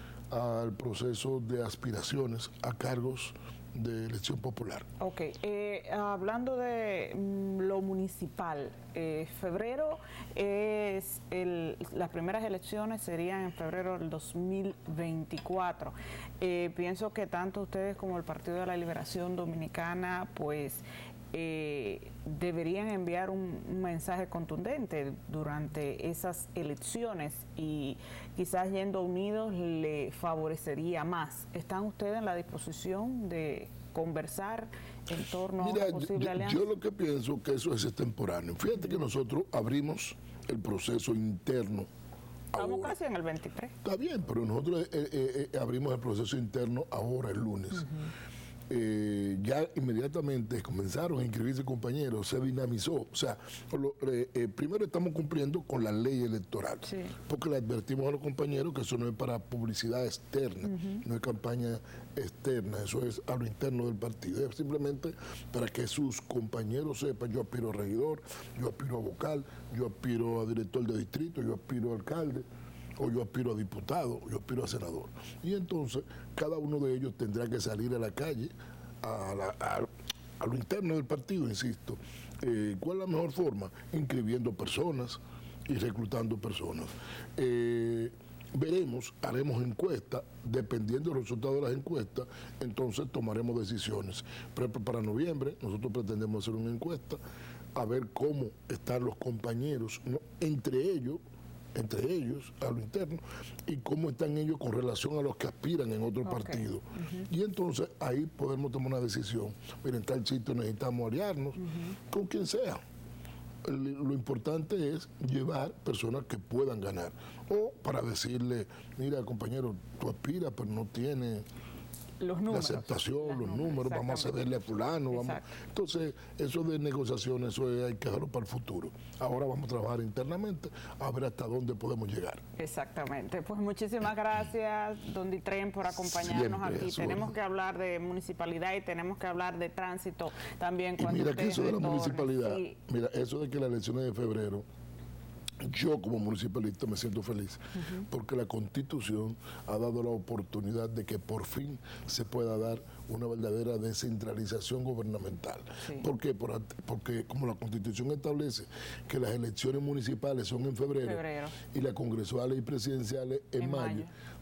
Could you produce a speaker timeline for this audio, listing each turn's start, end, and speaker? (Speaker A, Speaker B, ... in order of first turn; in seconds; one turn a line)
Speaker A: 0.3-4.8
Speaker B: 5.0-36.7
Speaker A: 35.6-41.9
Speaker A: 42.5-42.9
Speaker B: 42.5-43.7
Speaker A: 43.8-47.9
Speaker A: 48.7-72.5
Speaker B: 56.8-57.1
Speaker B: 60.6-61.0
Speaker A: 73.0-78.5
Speaker A: 79.0-79.9
Speaker A: 80.4-97.2
Speaker A: 97.7-101.2
Speaker A: 101.7-112.8
Speaker B: 106.2-107.3
Speaker B: 111.6-112.0
Speaker A: 113.6-121.4
Speaker B: 122.2-124.4
Speaker A: 122.5-132.4
Speaker B: 125.1-125.4
Speaker B: 132.6-142.7
Speaker A: 136.1-137.3
Speaker A: 141.0-144.6
Speaker A: 145.6-161.2
Speaker B: 161.0-161.5
Speaker A: 161.7-164.1
Speaker B: 163.6-164.1